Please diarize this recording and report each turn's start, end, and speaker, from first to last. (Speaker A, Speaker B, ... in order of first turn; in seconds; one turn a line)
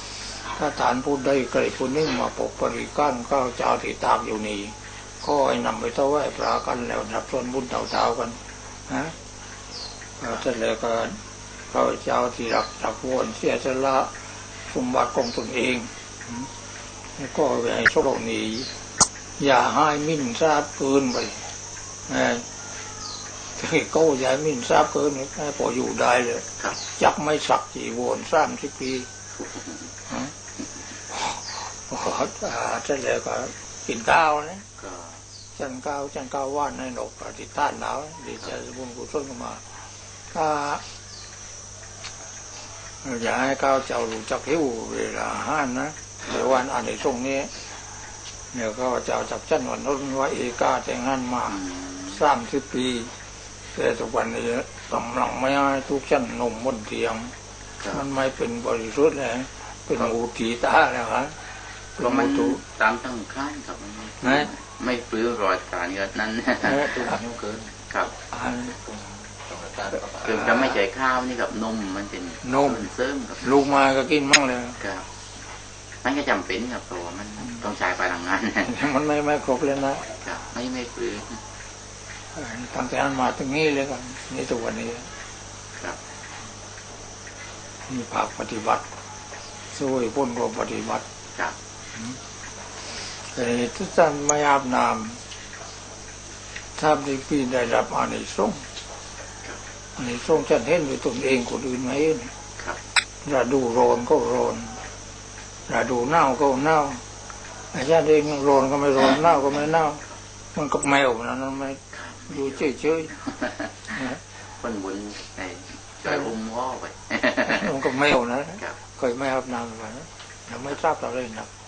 Speaker A: 0.3-9.2
Speaker A: 10.2-11.2
Speaker A: 11.7-14.1
Speaker A: 14.7-16.5
Speaker A: 17.2-18.7
Speaker A: 19.4-21.5
Speaker A: 22.1-22.4
Speaker A: 23.6-29.1
Speaker A: 31.1-34.6
Speaker B: 34.8-35.1
Speaker A: 35.5-39.8
Speaker A: 40.3-40.8
Speaker A: 43.0-47.5
Speaker A: 48.5-53.1
Speaker B: 51.7-52.0
Speaker A: 53.7-57.3
Speaker A: 57.9-62.6
Speaker B: 62.0-67.0
Speaker A: 64.2-64.5
Speaker A: 66.6-67.1
Speaker C: 66.7-67.8
Speaker A: 68.3-68.7
Speaker C: 68.8-70.5
Speaker B: 70.2-73.5
Speaker A: 72.4-72.8
Speaker A: 73.4-74.8
Speaker B: 76.0-78.8
Speaker A: 78.6-80.0
Speaker B: 80.1-81.4
Speaker A: 82.3-85.1
Speaker A: 87.9-88.8
Speaker A: 89.7-91.0
Speaker A: 93.0-95.2
Speaker A: 96.8-98.6
Speaker A: 100.0-102.3
Speaker A: 103.2-104.8
Speaker A: 105.7-107.0
Speaker A: 107.7-110.0
Speaker A: 110.5-113.2
Speaker B: 111.9-112.6
Speaker B: 113.3-113.5
Speaker A: 113.9-114.2
Speaker B: 114.5-117.7
Speaker A: 117.4-121.5